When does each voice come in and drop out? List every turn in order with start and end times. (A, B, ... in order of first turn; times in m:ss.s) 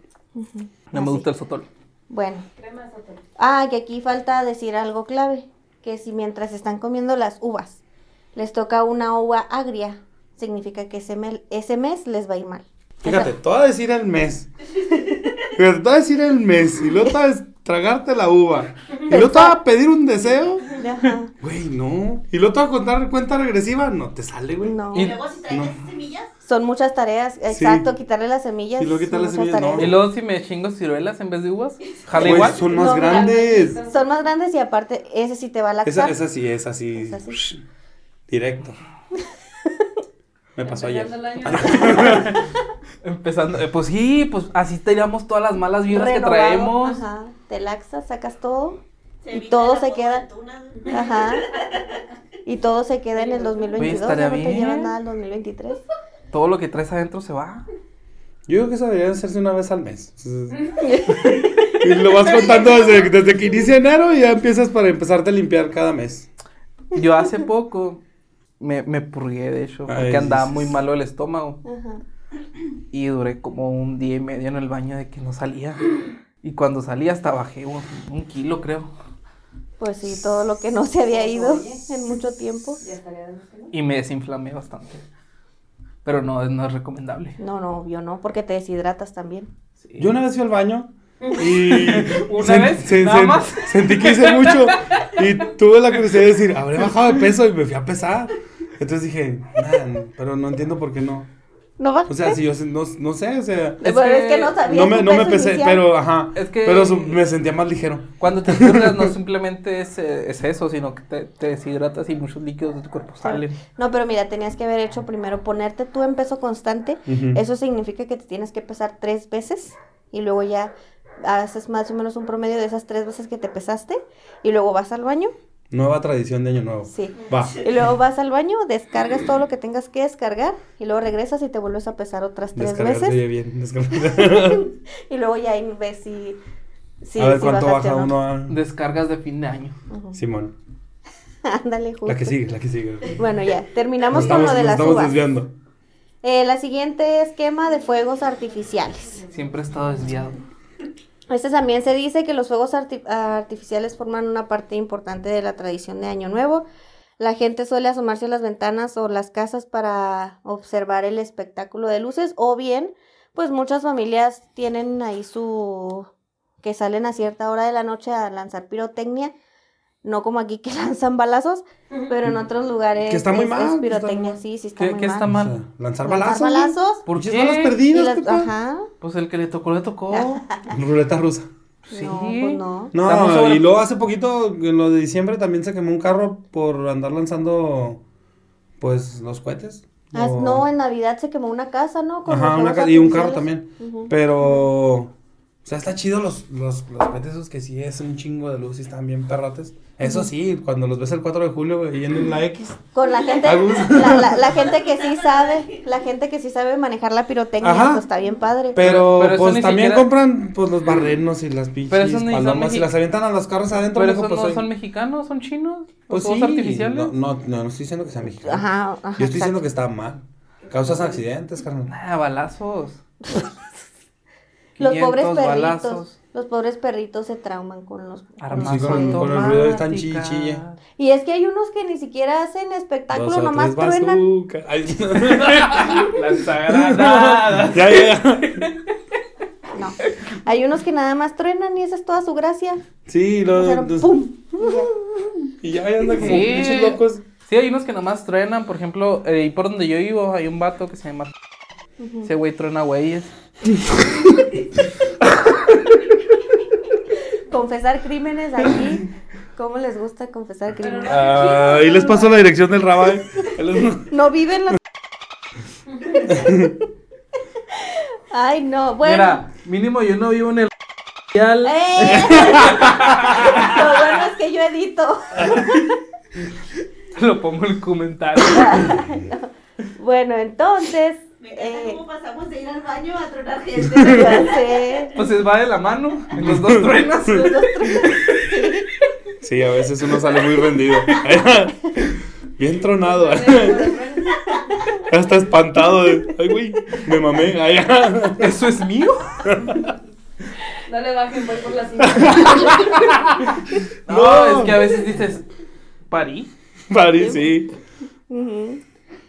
0:00.4-0:01.3 A
0:00.9-0:01.7 B
0:02.1-0:02.5 A
0:02.6-0:03.2 C
0:03.4-0:07.8 A
0:08.4-0:13.3 A
0:13.0-0:14.5 D
0:15.5-0:20.7 D
0:19.1-0:19.6 A
0:20.8-0:21.3 A
0:21.4-0:24.8 D
0:24.6-0:25.1 A
0:24.9-0:26.3 E
0:25.5-0:25.8 D
0:26.4-0:29.9 A
0:27.5-0:27.9 D
0:28.8-0:29.9 D
0:29.8-0:32.6 B
0:32.2-0:33.8 D
0:32.4-0:34.0 C
0:32.6-0:36.2 A
0:35.8-0:37.6 D
0:37.0-0:37.4 A
0:38.3-0:38.8 D
0:40.6-0:42.4 D
0:40.6-0:42.3 C
0:41.7-0:42.4 B
0:43.0-0:47.0 B
0:45.9-0:48.8 A
0:49.2-0:51.9 E
0:49.3-0:50.2 A
0:50.8-0:51.5 A
0:52.5-0:55.8 A
0:53.2-0:53.8 C
0:53.8-0:54.9 B
0:56.3-0:57.6 B
0:58.5-1:00.6 D
1:00.8-1:02.6 A
1:01.2-1:06.3 D
1:06.9-1:08.0 B
1:08.6-1:11.6 B
1:09.9-1:10.7 D
1:11.6-1:12.0 A
1:12.9-1:18.9 B
1:19.8-1:22.8 A
1:21.1-1:21.9 C
1:22.8-1:23.7 C
1:23.7-1:25.0 B
1:26.0-1:27.4 B
1:27.4-1:29.5 A
1:29.8-1:30.1 B
1:30.0-1:41.3 D
1:31.5-1:35.2 B
1:41.8-1:42.4 A
1:42.1-1:43.9 D
1:43.8-1:45.8 A
1:43.8-1:44.6 B
1:44.6-1:49.1 D
1:46.4-1:47.2 B
1:48.2-1:53.6 B
1:53.2-2:05.3 A
1:57.1-1:57.4 D
2:05.7-2:07.6 D
2:06.9-2:13.2 A
2:12.6-2:14.7 D
2:14.2-2:16.4 A
2:17.0-2:18.1 A
2:17.2-2:18.6 D
2:18.5-2:19.8 B
2:19.9-2:20.2 A
2:20.1-2:20.6 D
2:21.4-2:22.4 A
2:22.1-2:23.2 D
2:23.1-2:25.2 A
2:24.1-2:25.5 D
2:26.2-2:29.2 A
2:29.3-2:30.4 B
2:31.3-2:36.6 A
2:37.2-2:46.1 A
2:46.6-2:49.3 A
2:50.0-2:55.3 A
2:53.0-2:54.4 D
2:54.8-2:55.6 B
2:55.2-2:58.5 D
2:56.0-2:57.0 A
2:57.1-2:57.8 B
2:57.9-2:58.9 A
2:59.0-3:00.5 B
3:00.1-3:00.7 A
3:00.7-3:01.5 D
3:01.9-3:03.7 B
3:01.9-3:02.9 A
3:02.9-3:08.0 D
3:08.8-3:10.6 D
3:10.1-3:14.1 A
3:12.3-3:15.1 D
3:15.6-3:22.8 D
3:20.0-3:20.3 A
3:22.9-3:28.8 A
3:23.1-3:25.8 E
3:23.4-3:24.5 D
3:27.6-3:28.0 D
3:28.7-3:34.6 D
3:28.8-3:30.1 B
3:31.9-3:32.9 B
3:33.9-3:37.1 B
3:36.1-3:41.9 D
3:38.4-3:39.6 A
3:41.9-3:43.0 B
3:44.8-3:46.2 B
3:44.8-3:49.8 A
3:48.4-3:50.8 B
3:48.5-3:50.6 D
3:51.0-3:54.2 A
3:53.1-3:58.7 D
3:55.2-3:58.9 B
3:59.7-4:02.8 A
4:03.1-4:07.2 D
4:03.6-4:04.9 A
4:06.1-4:11.3 B
4:12.0-4:12.3 A
4:12.2-4:13.3 B
4:17.5-4:21.5 A
4:20.8-4:22.3 C
4:21.0-4:24.1 D
4:24.1-4:24.8 A
4:26.3-4:26.7 D
4:27.8-4:29.4 A
4:29.0-4:30.7 B
4:31.3-4:33.8 B
4:31.6-4:35.9 A
4:32.1-4:32.9 D
4:35.4-4:35.8 B
4:37.1-4:39.0 B
4:38.4-4:42.0 A
4:41.4-4:45.1 E
4:43.9-4:45.1 A
4:45.1-4:48.5 B
4:46.4-4:47.0 D
4:47.2-4:48.9 A
4:49.4-4:54.0 D
4:53.0-4:54.9 C
4:55.1-4:58.6 D
4:58.4-4:59.5 B
4:59.4-4:59.9 D
5:00.9-5:03.0 C
5:02.0-5:03.5 D
5:04.1-5:05.0 D
5:04.1-5:05.5 B
5:06.1-5:06.5 B
5:06.9-5:07.7 D
5:07.2-5:07.6 A
5:08.3-5:08.8 A